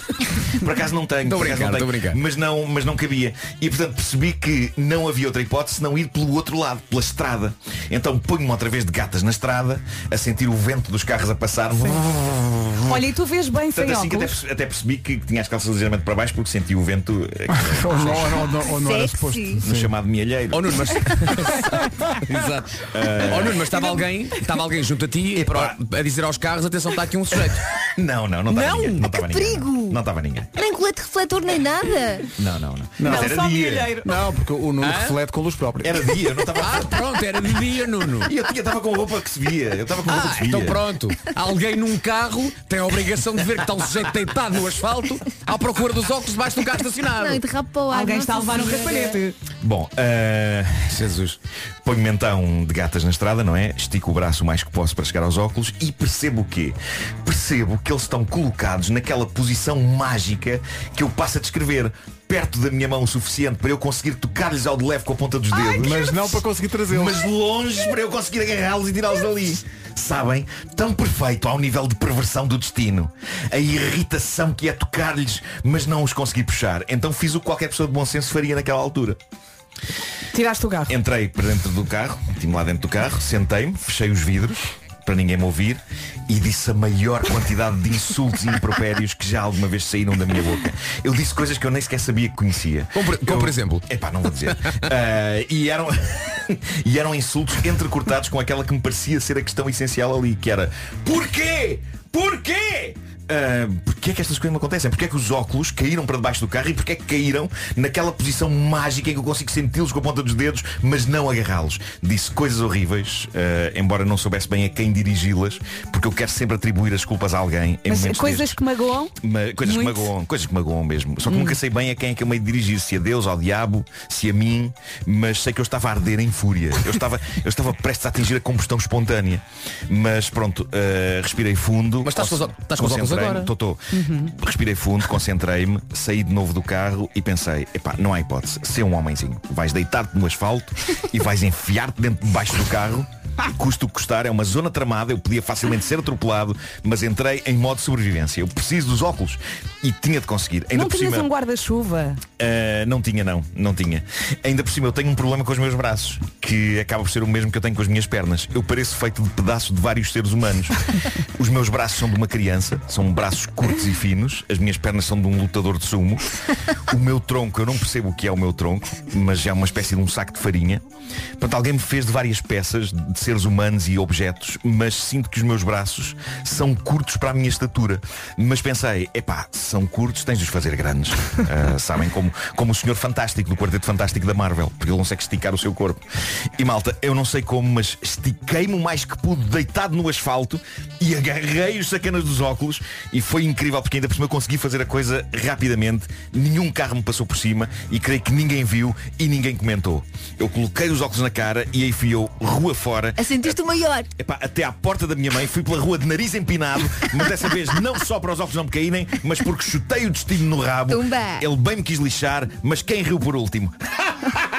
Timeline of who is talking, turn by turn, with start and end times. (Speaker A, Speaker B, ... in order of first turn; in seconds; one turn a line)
Speaker A: 0.2-0.5
Speaker B: 0.5-13.0
Speaker A: 1.2-2.2
Speaker C: 12.9-14.3
Speaker B: 13.7-18.5
Speaker D: 17.5-19.9
Speaker E: 18.7-19.6
Speaker B: 19.6-21.4
Speaker A: 20.5-27.6
Speaker B: 22.9-24.0
Speaker B: 25.3-25.8
Speaker B: 27.9-30.5
Speaker A: 28.6-29.0
Speaker E: 29.1-30.0
Speaker E: 30.6-32.3
Speaker B: 32.4-34.0
Speaker D: 33.0-33.4
Speaker C: 33.0-34.1
Speaker D: 34.0-36.1
Speaker A: 34.8-35.1
Speaker B: 35.8-37.0
Speaker A: 36.6-38.3
Speaker B: 38.2-40.9
Speaker A: 40.1-47.4
Speaker E: 47.1-49.2
Speaker C: 47.9-49.3
Speaker B: 49.6-51.1
Speaker A: 50.9-51.4
Speaker B: 51.8-79.2
Speaker D: 65.8-67.2
Speaker C: 80.3-80.9
Speaker B: 80.9-118.6
Speaker A: 92.9-93.8
Speaker C: 117.9-119.1
Speaker B: 119.2-151.3
Speaker C: 119.6-120.1
Speaker C: 121.3-121.6
Speaker A: 132.0-133.5
Speaker C: 133.9-134.3
Speaker C: 150.7-152.2
Speaker B: 152.4-160.8
Speaker B: 161.3-166.2
Speaker B: 166.9-170.8
Speaker B: 171.4-186.0
Speaker B: 186.6-203.6
Speaker E: 203.2-204.1
Speaker B: 204.2-213.7
Speaker E: 210.9-211.5